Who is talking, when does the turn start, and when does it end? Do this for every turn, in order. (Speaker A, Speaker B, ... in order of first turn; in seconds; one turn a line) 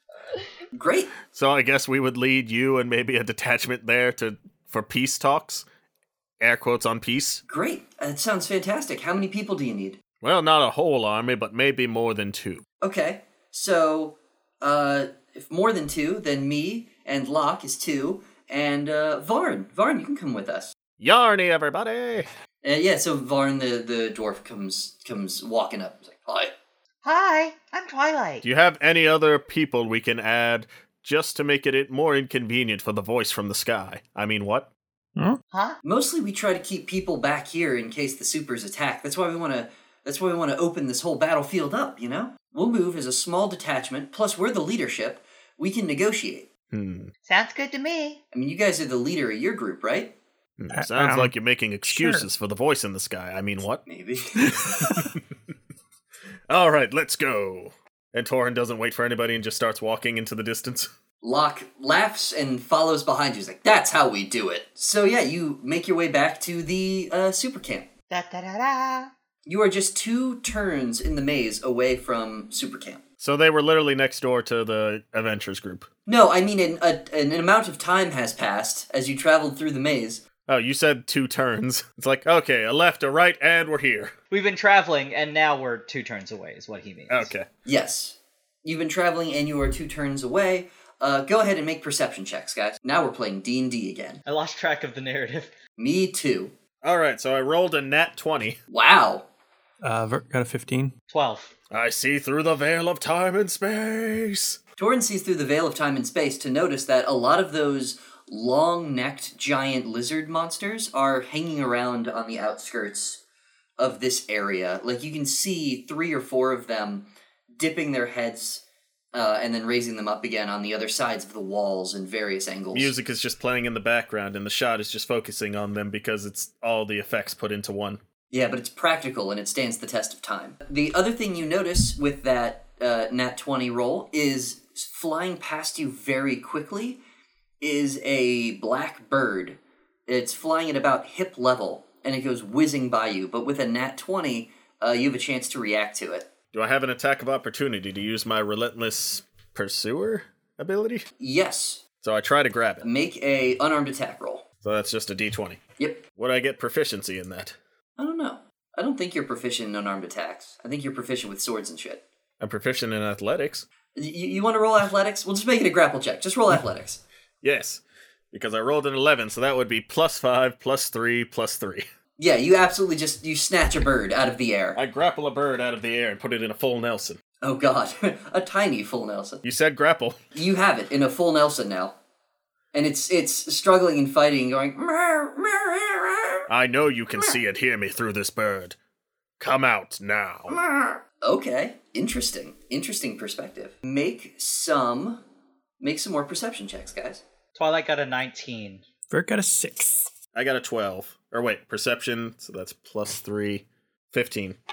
Speaker A: 0.7-1.1
Speaker B: 1.3-5.6
Speaker B: 6.4-7.4
Speaker A: 7.5-10.0
Speaker B: 10.2-12.6
Speaker A: 12.8-20.7
Speaker B: 21.0-22.3
Speaker A: 22.6-26.5
Speaker C: 27.0-28.4
Speaker B: 28.4-34.7
Speaker C: 35.5-35.8
Speaker A: 35.8-46.5
Speaker B: 46.7-47.1
Speaker C: 47.3-48.2
Speaker A: 48.3-50.1
Speaker B: 50.6-53.8
Speaker D: 50.7-51.3
Speaker D: 51.8-52.2
Speaker A: 53.9-54.8
Speaker D: 54.4-55.0
Speaker B: 56.5-60.9
Speaker A: 61.2-67.9
Speaker C: 68.1-69.1
Speaker A: 69.5-73.0
Speaker B: 73.2-75.9
Speaker A: 76.0-80.2
Speaker B: 80.5-84.1
Speaker E: 84.3-87.3
Speaker B: 87.1-87.5
Speaker A: 87.7-94.2
Speaker E: 94.2-95.5
Speaker A: 95.8-96.5
Speaker B: 96.8-98.6
Speaker A: 98.7-99.2
Speaker D: 99.8-100.9
Speaker E: 101.1-101.5
Speaker B: 101.7-104.6
Speaker A: 104.8-113.2
Speaker A: 113.8-122.9
Speaker B: 122.7-128.0
Speaker A: 128.3-137.0
Speaker A: 137.6-146.3
Speaker B: 146.5-151.1
Speaker A: 151.2-151.8
Speaker B: 152.0-152.9
Speaker A: 152.8-154.4
Speaker B: 154.6-155.6
Speaker B: 156.2-157.6
Speaker A: 158.0-162.0
Speaker B: 162.4-163.7
Speaker A: 163.9-167.0
Speaker B: 167.4-167.8
Speaker B: 168.3-171.8
Speaker A: 172.2-174.8
Speaker B: 174.8-177.2
Speaker A: 177.4-179.4
Speaker B: 179.4-180.2
Speaker A: 180.3-181.9
Speaker A: 182.7-186.5
Speaker B: 186.5-188.8
Speaker B: 189.4-190.6
Speaker A: 190.5-195.2
Speaker A: 195.8-197.2
Speaker E: 197.6-198.8
Speaker D: 199.1-200.1
Speaker B: 200.3-204.6